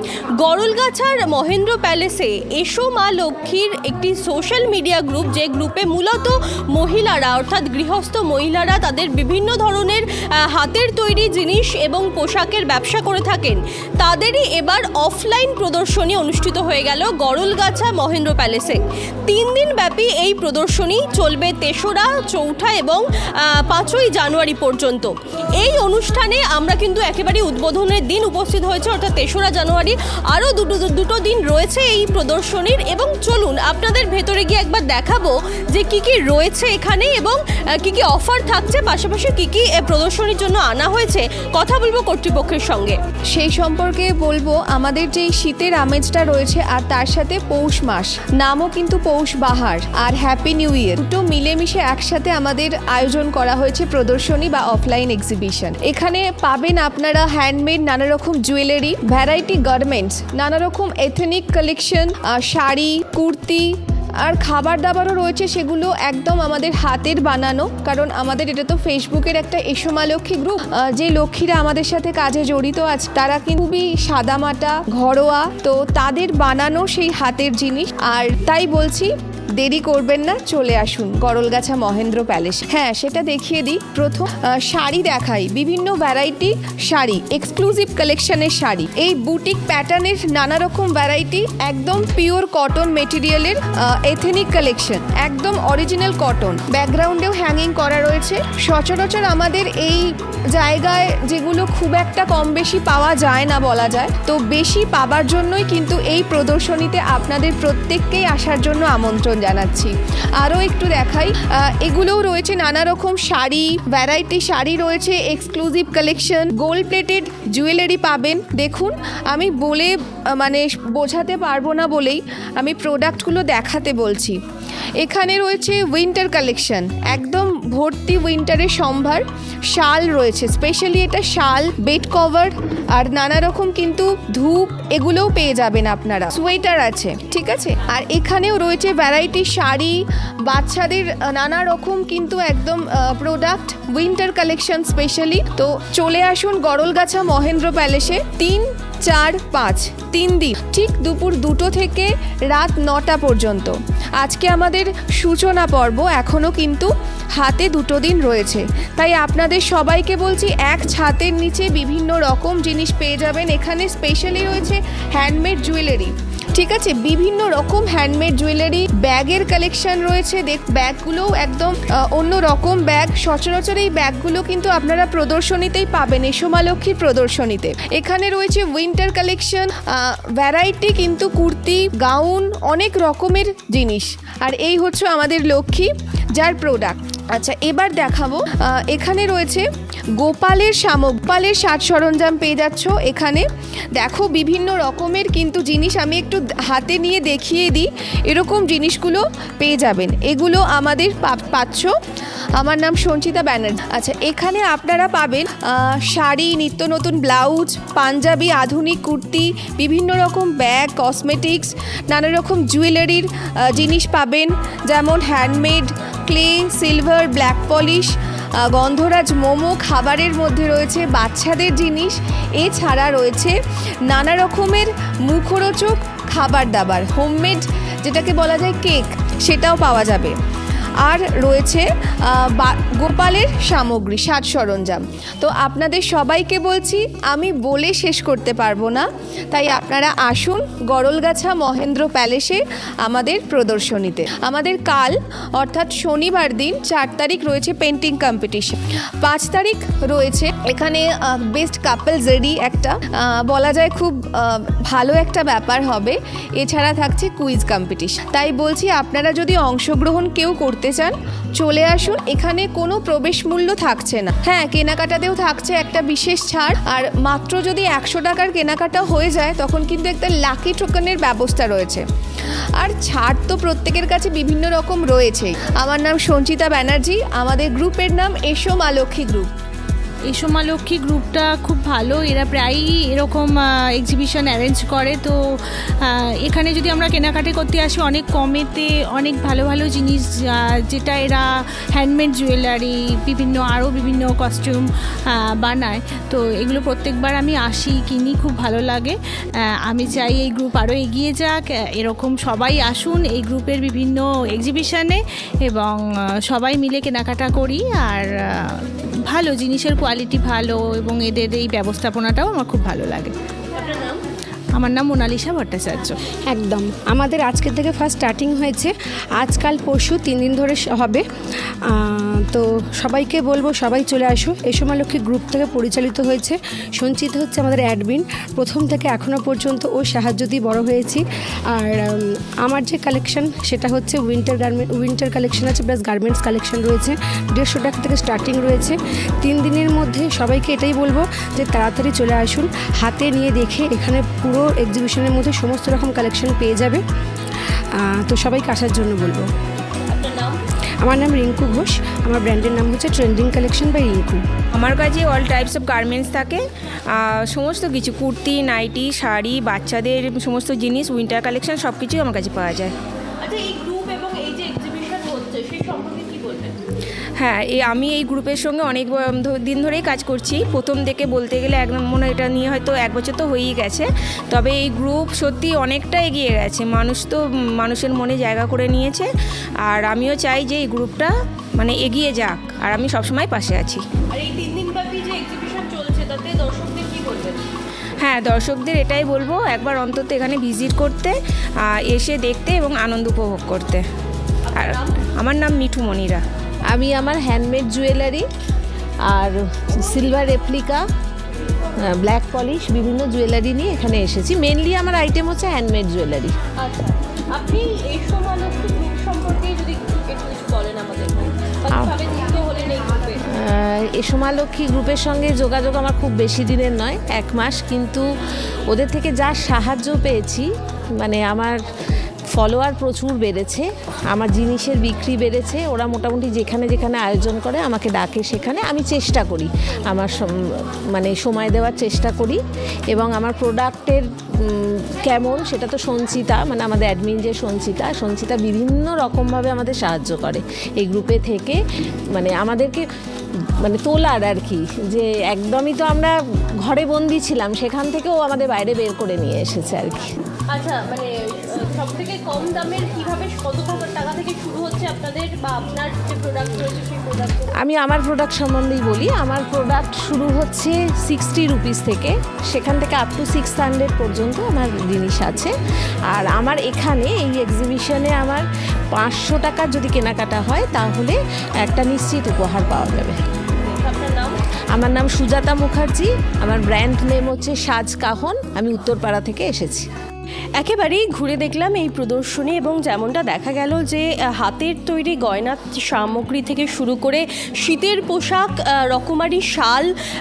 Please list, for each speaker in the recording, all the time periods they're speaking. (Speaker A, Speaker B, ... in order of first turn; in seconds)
Speaker A: 0.4-43.0, 313.8-314.2, 350.1-350.6, 363.4-366.8, 384.3-387.6, 394.7-395.3, 406.8-413.4, 450.7-457.7, 473.7-474.6, 480.8-490.1
Speaker B: 43.3-63.7, 64.2-124.4, 125.0-189.7, 190.2-201.9, 202.6-205.5, 206.1-223.6, 224.1-230.3, 231.0-272.0, 272.8-279.5
Speaker C: 280.3-285.4, 286.0-313.4, 314.8-316.2
Speaker D: 316.5-321.2, 321.9-347.0, 348.0-349.5, 351.0-354.4
Speaker E: 354.8-362.9, 367.4-379.3, 379.8-384.0, 388.2-394.1, 394.8-396.4
Speaker F: 396.9-398.5, 399.3-401.1, 402.0-406.5, 413.5-418.2, 418.9-421.8, 422.5-441.8, 442.3-443.1, 443.8-450.4, 457.8-465.7, 466.3-473.4, 474.9-480.1